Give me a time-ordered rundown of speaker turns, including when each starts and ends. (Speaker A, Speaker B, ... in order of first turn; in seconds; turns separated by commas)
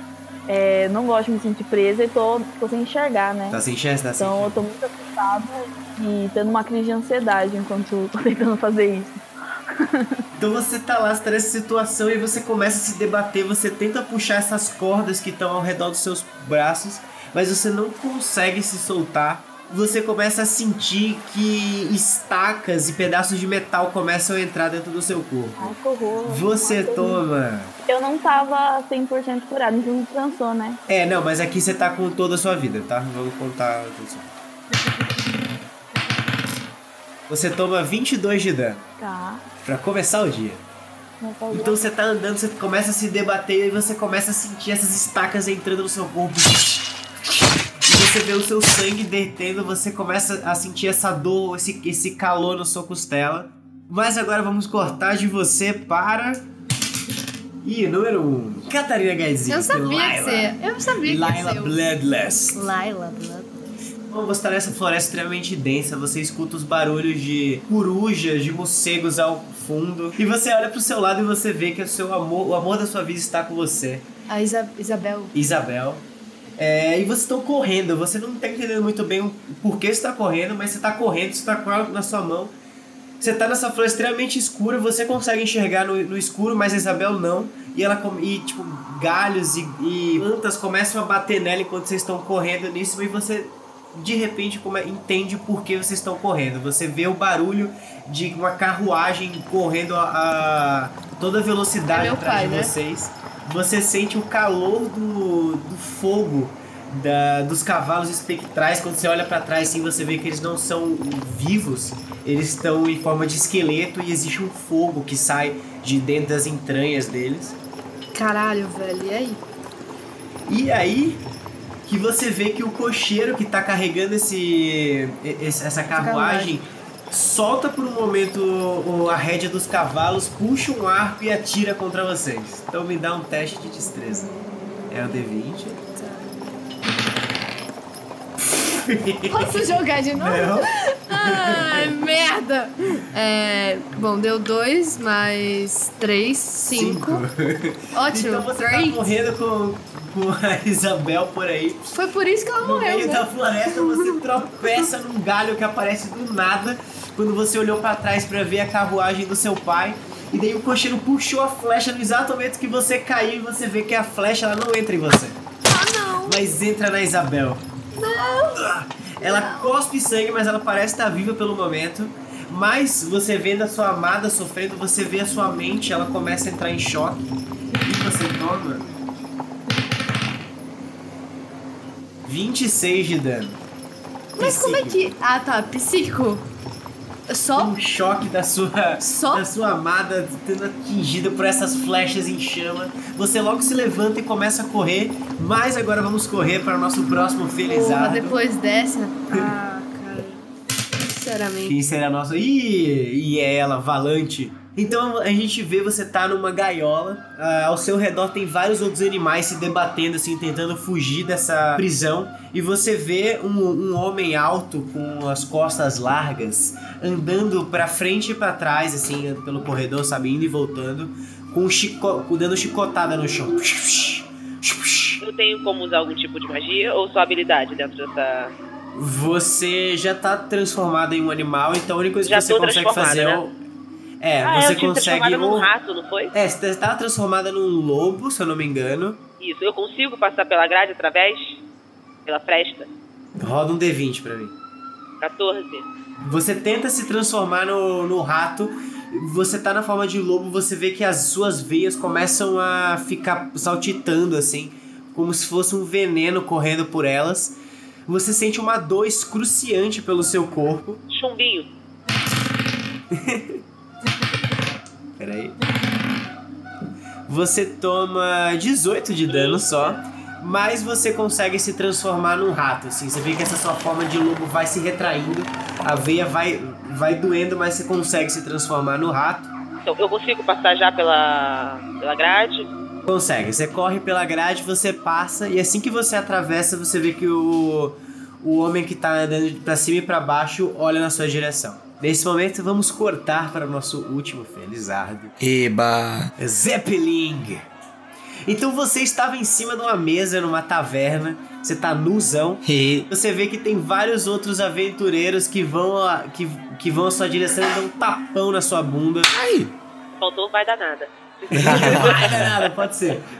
Speaker A: 0.5-3.6, Speaker B: 3.5-4.6, Speaker A: 4.2-9.2, Speaker A: 9.8-10.2, Speaker B: 10.4-27.7, Speaker A: 25.6-27.3, Speaker A: 27.9-30.8, Speaker B: 30.9-34.3, Speaker B: 37.3-38.9, Speaker A: 39.0-39.5, Speaker B: 39.6-40.6, Speaker A: 41.2-41.8, Speaker B: 41.5-56.4, Speaker B: 57.6-62.6, Speaker C: 59.5-61.8, Speaker C: 62.5-63.7, Speaker B: 64.1-74.1, Speaker C: 74.3-75.3, Speaker B: 75.3-76.1, Speaker B: 76.6-82.5, Speaker B: 83.2-117.6, Speaker C: 101.9-102.7, Speaker C: 118.1-119.4, Speaker B: 120.5-121.2, Speaker B: 121.9-134.4, Speaker C: 125.9-126.5, Speaker B: 134.9-135.7, Speaker C: 135.6-136.5, Speaker B: 138.5-139.6, Speaker C: 139.3-147.2, Speaker B: 140.2-141.9, Speaker B: 146.7-151.9, Speaker C: 147.9-149.1, Speaker C: 151.9-154.2, Speaker B: 152.6-165.4, Speaker C: 165.7-166.4, Speaker B: 166.2-167.6, Speaker C: 167.9-169.7, Speaker B: 168.5-177.3, Speaker B: 177.8-179.0, Speaker B: 182.3-183.6, Speaker B: 184.4-185.2, Speaker C: 184.4-186.4, Speaker C: 187.3-187.8, Speaker B: 187.6-198.4, Speaker C: 189.0-189.5, Speaker C: 197.7-201.8, Speaker B: 201.6-225.2, Speaker D: 225.2-228.5, Speaker B: 228.9-233.6, Speaker D: 232.3-233.4, Speaker B: 234.2-235.7, Speaker D: 234.4-236.3, Speaker B: 236.3-239.2, Speaker D: 239.4-241.6, Speaker D: 242.3-242.9, Speaker B: 243.4-244.6, Speaker D: 245.2-245.9, Speaker B: 246.2-257.6, Speaker B: 258.1-261.0, Speaker D: 261.1-261.7, Speaker B: 263.1-263.6, Speaker B: 265.2-265.6, Speaker B: 267.3-279.5, Speaker D: 269.3-269.6, Speaker D: 279.9-282.7, Speaker B: 283.1-295.3, Speaker E: 295.4-296.3, Speaker B: 296.4-297.7, Speaker B: 298.5-309.3, Speaker E: 302.6-303.1, Speaker E: 309.3-309.7, Speaker D: 310.2-312.4, Speaker B: 311.5-313.3, Speaker E: 311.5-312.6